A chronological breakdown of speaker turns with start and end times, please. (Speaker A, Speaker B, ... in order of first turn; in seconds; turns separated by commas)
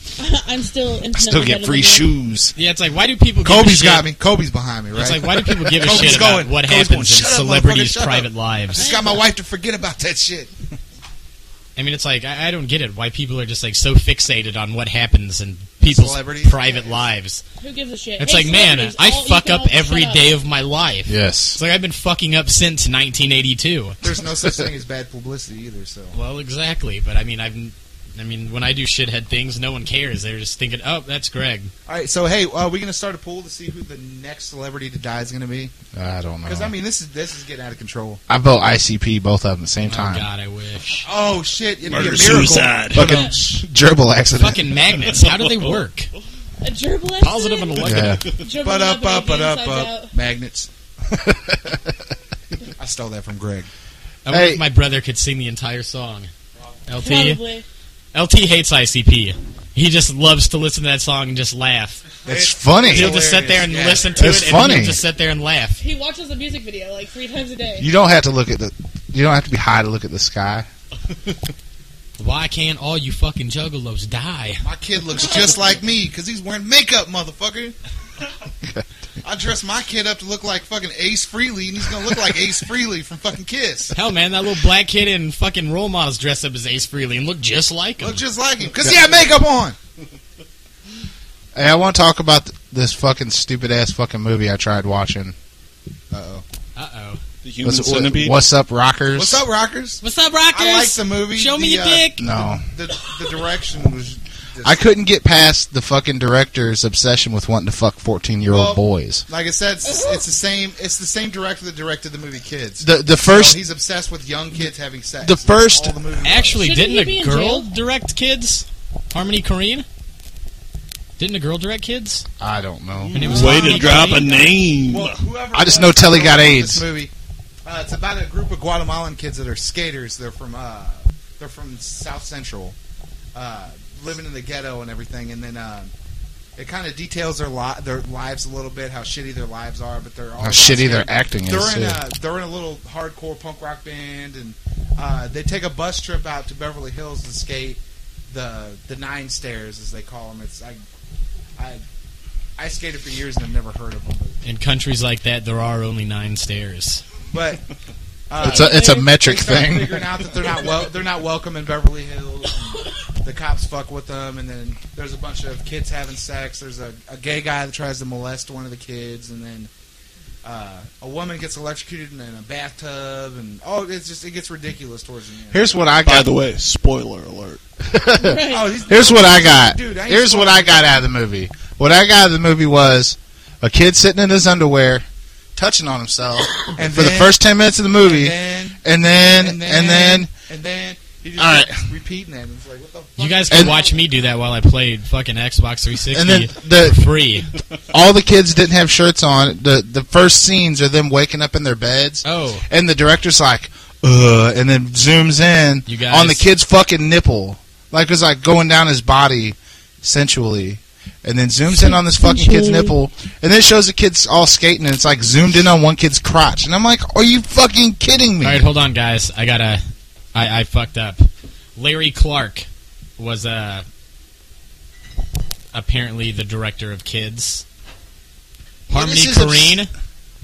Speaker A: 0.2-2.1, Speaker B: 1.1-2.5, Speaker C: 2.5-4.1, Speaker D: 3.4-10.5, Speaker C: 4.9-8.9, Speaker A: 8.7-9.3, Speaker C: 11.8-17.4, Speaker D: 15.8-17.1, Speaker A: 17.6-20.4, Speaker C: 18.2-24.0, Speaker B: 21.1-21.6, Speaker D: 24.0-26.1, Speaker B: 24.4-24.7, Speaker C: 26.1-31.7, Speaker D: 31.9-35.8, Speaker B: 35.9-36.7, Speaker D: 36.4-38.2, Speaker B: 38.3-40.2, Speaker C: 39.8-41.0, Speaker D: 41.0-43.6, Speaker E: 41.8-43.2, Speaker B: 41.9-44.7, Speaker C: 44.4-46.1, Speaker E: 45.0-45.8, Speaker A: 46.6-50.1, Speaker C: 47.2-48.2, Speaker B: 47.8-48.2, Speaker D: 48.5-50.7, Speaker B: 51.1-51.9, Speaker D: 52.8-53.7, Speaker C: 54.2-56.3, Speaker B: 54.3-54.6, Speaker C: 56.9-57.4, Speaker A: 57.0-57.6, Speaker C: 58.1-62.0, Speaker D: 62.2-64.2, Speaker B: 62.3-63.2, Speaker C: 62.9-65.8, Speaker B: 64.2-65.0, Speaker A: 65.8-67.9, Speaker B: 67.8-70.7, Speaker C: 72.2-74.6, Speaker D: 74.6-77.8, Speaker A: 75.2-75.8, Speaker D: 79.2-83.9, Speaker C: 83.9-88.2, Speaker D: 88.0-89.8, Speaker B: 88.8-89.3, Speaker B: 91.5-95.3, Speaker D: 96.1-96.4, Speaker C: 96.8-97.2, Speaker E: 97.4-98.4, Speaker B: 97.6-99.4, Speaker D: 99.1-100.0, Speaker C: 100.0-102.2, Speaker D: 100.5-104.8, Speaker B: 102.2-102.6, Speaker B: 104.6-109.2, Speaker D: 108.5-116.6, Speaker A: 109.8-110.2, Speaker B: 112.8-113.6, Speaker B: 115.2-116.0, Speaker C: 116.2-119.8, Speaker A: 116.5-117.7, Speaker C: 121.2-122.2, Speaker B: 122.4-123.7, Speaker E: 123.0-125.2, Speaker C: 123.1-124.3, Speaker D: 123.3-127.1, Speaker B: 125.5-126.9, Speaker D: 127.6-132.8, Speaker D: 133.3-135.9, Speaker D: 136.6-150.8, Speaker B: 140.4-142.0, Speaker D: 151.6-151.8, Speaker D: 152.6-154.4, Speaker C: 154.4-157.0, Speaker D: 157.3-157.6, Speaker D: 158.3-169.7, Speaker A: 158.4-159.1, Speaker B: 158.4-160.1, Speaker D: 170.4-175.7, Speaker B: 175.5-176.3, Speaker E: 176.0-177.6, Speaker B: 177.8-185.0, Speaker A: 178.2-178.8, Speaker D: 178.5-180.9, Speaker B: 185.6-190.3, Speaker D: 186.8-187.4, Speaker D: 187.9-194.0, Speaker B: 191.4-191.9, Speaker C: 193.2-197.5, Speaker B: 193.5-193.8, Speaker B: 196.1-197.1, Speaker B: 197.9-218.7, Speaker C: 202.2-202.6, Speaker C: 205.8-206.5, Speaker A: 211.7-212.9, Speaker C: 218.4-219.8, Speaker C: 220.3-222.7, Speaker C: 223.2-223.8, Speaker C: 225.7-227.6, Speaker C: 228.9-229.9, Speaker D: 228.9-229.7, Speaker B: 229.2-229.5